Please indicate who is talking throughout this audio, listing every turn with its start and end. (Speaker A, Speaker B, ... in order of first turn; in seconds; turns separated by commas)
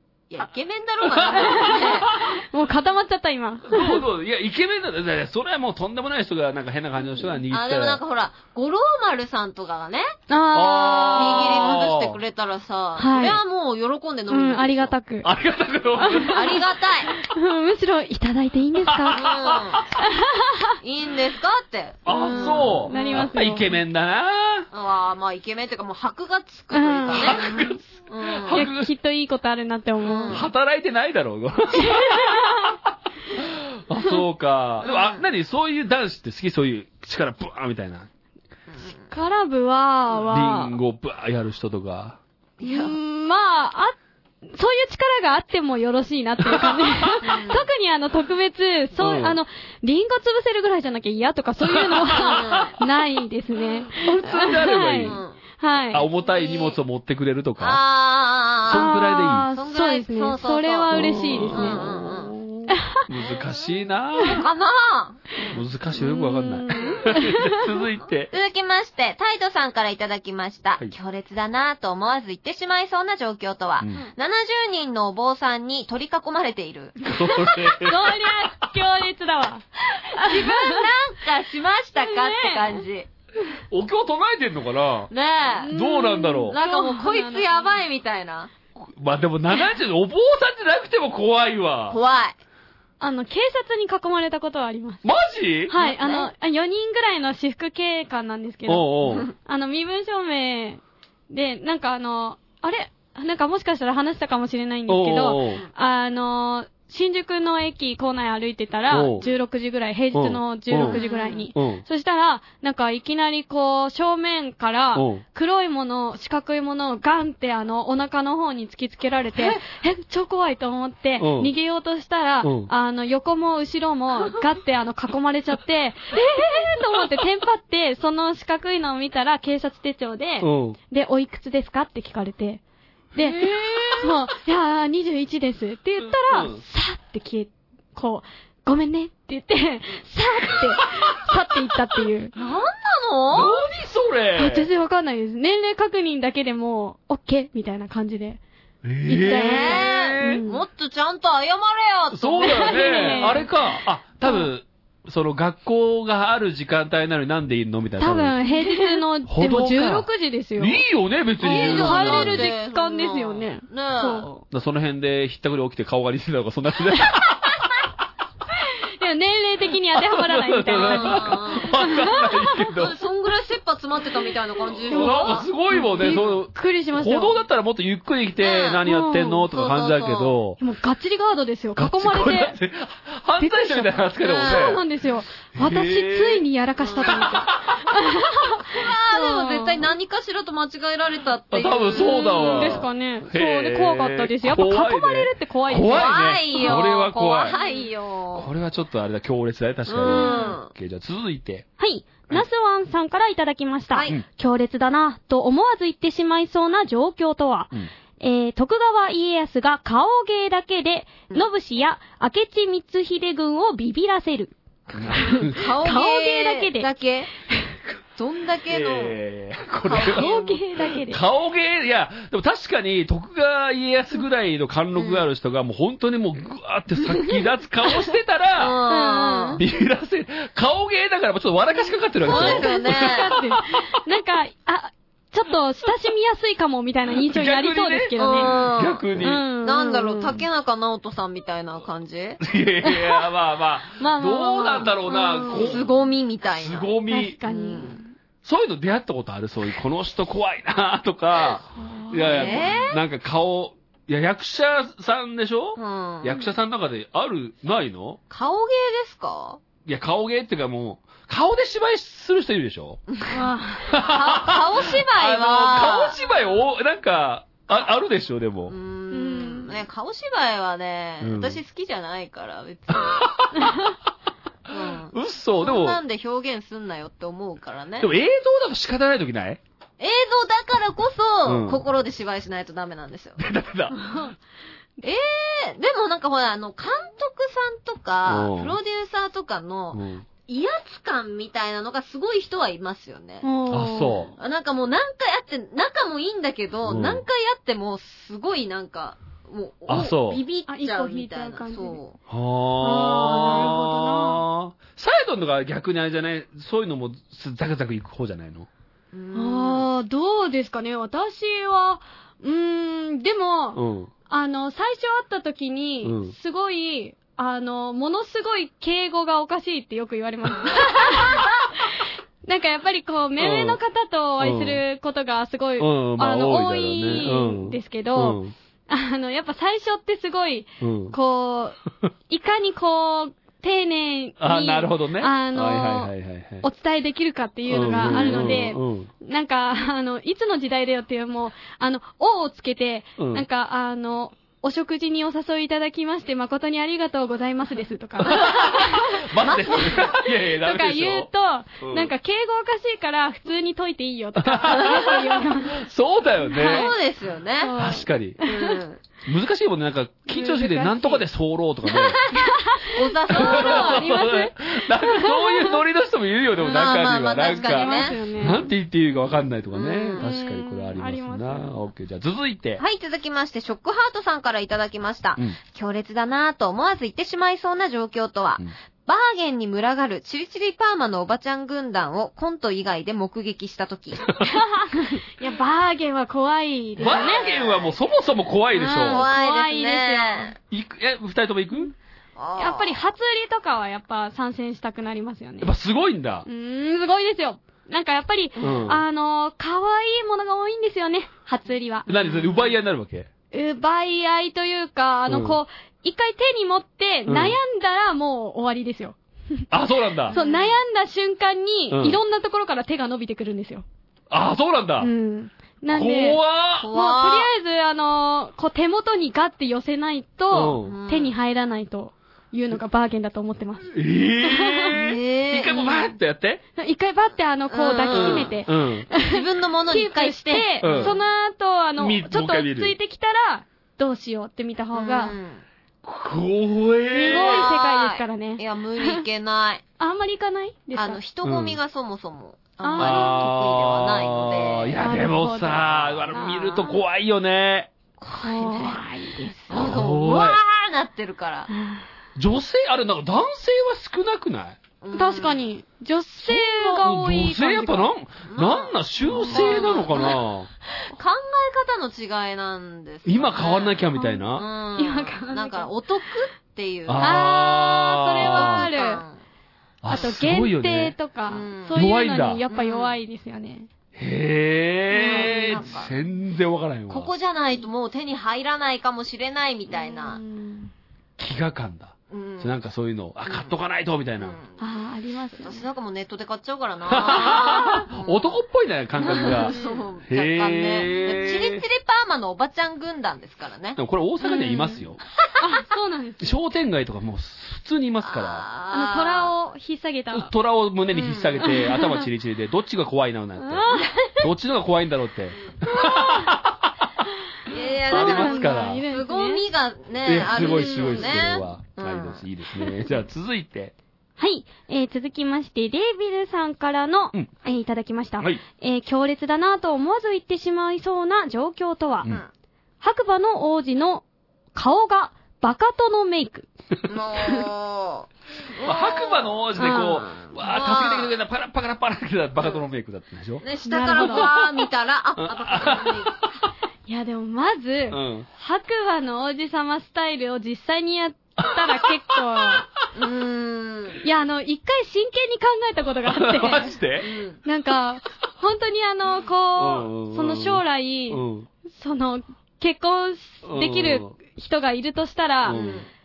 Speaker A: 0.3-2.1, Speaker B: 1.0-2.4, Speaker C: 1.4-4.0, Speaker B: 3.6-8.0, Speaker A: 7.5-10.1, Speaker C: 10.3-11.7, Speaker B: 10.5-12.2, Speaker A: 10.7-14.9, Speaker C: 13.0-13.4, Speaker C: 14.3-15.3, Speaker B: 15.2-16.6, Speaker C: 16.0-16.4, Speaker A: 16.3-17.1, Speaker C: 17.3-19.2, Speaker B: 18.8-19.9, Speaker A: 19.1-19.9, Speaker C: 20.0-20.7, Speaker A: 20.8-23.3, Speaker B: 22.1-24.7, Speaker C: 22.1-23.7, Speaker A: 24.7-27.5, Speaker C: 26.7-27.6, Speaker B: 27.1-28.9, Speaker A: 28.1-28.6, Speaker C: 28.5-30.4, Speaker A: 30.0-30.5, Speaker B: 30.3-32.8, Speaker C: 31.8-32.7, Speaker B: 33.3-38.1, Speaker A: 34.8-35.2, Speaker A: 38.7-39.1, Speaker C: 39.1-40.8, Speaker B: 40.3-42.2, Speaker A: 42.6-43.0, Speaker C: 42.6-43.9, Speaker C: 44.5-56.0, Speaker B: 46.6-47.1, Speaker A: 47.2-47.7, Speaker B: 49.0-49.4, Speaker B: 51.6-52.7, Speaker A: 52.3-52.8, Speaker B: 53.9-55.2, Speaker A: 55.0-55.4, Speaker B: 55.9-57.8, Speaker A: 56.2-56.8, Speaker A: 57.6-58.9, Speaker B: 58.6-59.5, Speaker C: 58.7-61.9, Speaker A: 59.5-62.3, Speaker B: 60.9-64.4, Speaker C: 62.7-63.0, Speaker A: 64.2-65.6, Speaker B: 65.5-68.3, Speaker C: 66.0-67.6, Speaker A: 66.7-67.0, Speaker A: 68.3-77.0, Speaker B: 77.0-78.5, Speaker C: 77.7-80.8, Speaker A: 80.2-83.1, Speaker C: 82.0-82.8, Speaker B: 83.7-85.1, Speaker A: 85.1-85.8, Speaker C: 85.6-87.8, Speaker B: 85.7-86.5, Speaker A: 86.5-88.5, Speaker B: 88.8-92.0, Speaker A: 91.9-92.3, Speaker C: 93.0-95.0, Speaker B: 95.0-95.8, Speaker C: 95.7-132.6, Speaker A: 95.8-96.3, Speaker B: 98.7-99.3, Speaker B: 104.9-105.6, Speaker B: 108.9-109.2, Speaker B: 110.1-111.0, Speaker A: 110.8-111.5, Speaker B: 111.5-111.8, Speaker B: 114.9-115.2, Speaker B: 121.2-121.5, Speaker B: 122.4-122.7, Speaker B: 130.4-130.8, Speaker C: 133.1-142.3, Speaker A: 133.2-134.1, Speaker B: 136.0-136.6, Speaker A: 142.3-143.6, Speaker B: 143.3-144.7, Speaker C: 144.3-148.4, Speaker B: 148.8-150.4, Speaker C: 149.0-150.6, Speaker A: 149.2-153.4, Speaker B: 152.1-158.4, Speaker C: 152.4-153.5, Speaker C: 158.0-160.8, Speaker B: 159.3-162.5, Speaker C: 161.4-164.4, Speaker A: 161.4-164.3, Speaker B: 164.5-167.7, Speaker C: 169.0-172.5, Speaker B: 169.9-173.0, Speaker A: 170.7-171.8, Speaker A: 172.7-175.5, Speaker B: 174.9-180.6, Speaker C: 174.9-177.4, Speaker A: 176.0-176.3, Speaker A: 178.4-178.8, Speaker C: 178.8-179.5, Speaker A: 179.5-180.4, Speaker C: 180.6-182.5, Speaker B: 181.8-184.8, Speaker C: 183.4-189.8, Speaker A: 184.2-184.8, Speaker B: 185.5-186.4, Speaker A: 186.8-187.3, Speaker B: 187.0-187.8, Speaker A: 188.7-192.9, Speaker B: 191.5-197.6, Speaker C: 191.9-196.8, Speaker A: 195.9-198.5, Speaker C: 197.5-197.9, Speaker B: 198.3-201.7, Speaker A: 199.9-200.7, Speaker C: 200.1-200.6, Speaker C: 201.8-214.5, Speaker A: 203.9-204.2, Speaker B: 214.9-215.7, Speaker C: 215.1-216.9, Speaker A: 215.2-217.3, Speaker A: 218.2-219.2, Speaker B: 218.7-220.3, Speaker A: 219.8-220.6, Speaker C: 219.9-221.2, Speaker B: 221.1-228.8, Speaker A: 224.9-225.3, Speaker A: 228.6-229.6, Speaker C: 228.9-229.6, Speaker B: 229.6-233.8, Speaker A: 232.2-233.3, Speaker C: 232.2-238.6, Speaker B: 237.1-239.4, Speaker A: 238.2-239.1, Speaker C: 239.2-240.3, Speaker A: 239.6-242.4, Speaker B: 242.4-245.9, Speaker C: 242.8-243.2, Speaker C: 244.0-245.8, Speaker A: 245.1-246.9, Speaker B: 246.5-247.4, Speaker C: 247.1-248.1, Speaker A: 247.4-248.0, Speaker B: 248.4-258.2, Speaker C: 251.8-252.7, Speaker A: 252.3-253.0, Speaker A: 255.8-256.4, Speaker A: 258.3-259.6, Speaker B: 259.8-263.0, Speaker C: 263.3-263.9, Speaker B: 263.9-268.7, Speaker A: 264.0-266.2, Speaker A: 268.7-273.3, Speaker C: 269.1-269.7, Speaker B: 271.2-271.6, Speaker B: 272.9-273.7, Speaker A: 274.7-278.1, Speaker B: 275.1-276.0, Speaker B: 278.0-279.6, Speaker A: 280.0-283.4, Speaker B: 281.4-281.8, Speaker B: 283.4-284.1, Speaker A: 285.0-293.5, Speaker B: 288.2-288.8, Speaker B: 289.9-290.2, Speaker C: 293.4-294.3, Speaker B: 293.7-294.3, Speaker A: 294.4-302.2, Speaker B: 296.8-297.2, Speaker B: 299.9-300.4, Speaker C: 300.7-302.0, Speaker B: 302.3-308.7, Speaker C: 302.8-304.4, Speaker A: 303.2-303.8, Speaker A: 309.1-309.9, Speaker C: 309.3-349.2, Speaker B: 313.7-314.1, Speaker B: 316.0-316.4, Speaker B: 323.4-323.8, Speaker B: 324.4-324.8, Speaker B: 325.8-328.5, Speaker B: 330.8-331.1, Speaker B: 334.4-336.6, Speaker B: 337.7-339.1, Speaker A: 338.0-338.6, Speaker B: 343.2-343.4, Speaker B: 348.2-351.3, Speaker A: 349.4-350.1, Speaker C: 350.3-355.8, Speaker B: 351.8-352.1, Speaker B: 354.4-356.9, Speaker C: 356.5-356.9, Speaker A: 356.6-357.8, Speaker C: 357.6-358.8, Speaker B: 357.8-358.4, Speaker A: 358.4-359.0, Speaker B: 359.2-362.2, Speaker C: 360.3-361.2, Speaker A: 361.9-364.2, Speaker C: 362.3-365.7, Speaker B: 363.3-372.8, Speaker A: 366.6-368.5, Speaker C: 367.4-368.6, Speaker A: 369.7-370.2, Speaker C: 370.2-371.7, Speaker A: 372.8-384.3, Speaker C: 384.4-387.4, Speaker B: 387.0-389.3, Speaker A: 387.0-388.0, Speaker C: 388.7-390.5, Speaker A: 388.9-390.6, Speaker B: 390.7-391.9, Speaker A: 392.4-393.1, Speaker C: 392.6-395.7, Speaker B: 395.6-396.4, Speaker C: 396.4-402.1, Speaker B: 398.6-399.0, Speaker B: 402.1-403.3, Speaker A: 402.2-402.7, Speaker C: 403.5-409.6, Speaker B: 405.3-405.6, Speaker B: 407.3-407.6, Speaker B: 409.7-410.4, Speaker C: 410.3-413.8, Speaker A: 410.3-410.8, Speaker B: 411.9-412.2, Speaker B: 414.3-415.1, Speaker C: 415.0-416.4, Speaker B: 415.9-416.9, Speaker A: 416.8-417.5, Speaker C: 416.9-424.9, Speaker B: 420.5-421.0, Speaker A: 420.6-421.3, Speaker B: 423.9-426.6, Speaker A: 424.9-426.0, Speaker C: 426.8-429.3, Speaker A: 427.7-428.6, Speaker B: 428.1-429.1, Speaker A: 429.2-431.2, Speaker C: 429.9-435.4, Speaker B: 430.8-431.2, Speaker B: 432.0-432.9, Speaker A: 434.9-435.6, Speaker B: 436.0-437.7, Speaker C: 437.1-439.2, Speaker A: 437.2-439.8, Speaker C: 440.0-441.2, Speaker A: 440.9-447.0, Speaker B: 441.4-441.8, Speaker C: 442.8-443.4, Speaker B: 443.0-447.9, Speaker C: 445.0-446.6, Speaker A: 448.2-451.7, Speaker C: 448.4-449.6, Speaker B: 449.7-450.6, Speaker C: 451.7-452.0, Speaker B: 452.4-454.8, Speaker A: 455.0-455.6, Speaker C: 455.1-458.1, Speaker B: 456.4-460.7, Speaker A: 458.5-460.4, Speaker C: 459.5-460.2, Speaker A: 461.1-467.6, Speaker B: 463.2-464.6, Speaker C: 465.0-465.9, Speaker B: 467.1-468.9, Speaker C: 467.2-469.2, Speaker A: 468.4-469.4, Speaker B: 470.0-471.2, Speaker C: 470.1-473.9, Speaker A: 471.5-472.0, Speaker B: 471.9-472.6, Speaker A: 472.7-473.1, Speaker B: 474.1-477.3, Speaker A: 475.1-476.1, Speaker C: 475.2-475.8, Speaker A: 477.1-480.4, Speaker C: 479.9-480.9, Speaker B: 481.4-484.6, Speaker A: 482.3-482.7, Speaker A: 483.5-483.7, Speaker A: 484.4-484.8, Speaker C: 484.8-485.8, Speaker A: 485.5-488.6, Speaker B: 487.1-489.7, Speaker A: 489.2-494.0, Speaker C: 489.3-490.0, Speaker B: 490.3-491.8, Speaker B: 493.9-495.2, Speaker C: 494.5-495.0, Speaker C: 495.6-496.5, Speaker B: 496.4-498.6, Speaker A: 498.2-499.5, Speaker C: 498.9-500.5, Speaker B: 500.3-507.1, Speaker A: 501.1-501.8, Speaker C: 501.6-502.2, Speaker C: 503.6-504.4, Speaker A: 507.7-512.4, Speaker B: 508.1-509.0, Speaker C: 508.1-509.6, Speaker B: 510.2-513.9, Speaker C: 510.5-511.2, Speaker C: 514.4-522.3, Speaker C: 523.0-526.7, Speaker A: 527.1-531.4, Speaker B: 528.8-533.6, Speaker C: 529.8-530.1, Speaker A: 533.6-536.6, Speaker C: 533.8-534.5, Speaker B: 534.1-534.5, Speaker B: 535.4-536.3, Speaker C: 537.1-542.9, Speaker B: 538.1-538.5, Speaker B: 541.6-542.0, Speaker A: 543.1-544.2, Speaker C: 544.2-547.0, Speaker B: 546.2-547.3, Speaker A: 547.2-547.6, Speaker C: 547.6-555.8, Speaker B: 549.8-551.7, Speaker B: 553.6-554.3, Speaker B: 555.6-556.0, Speaker A: 555.7-556.1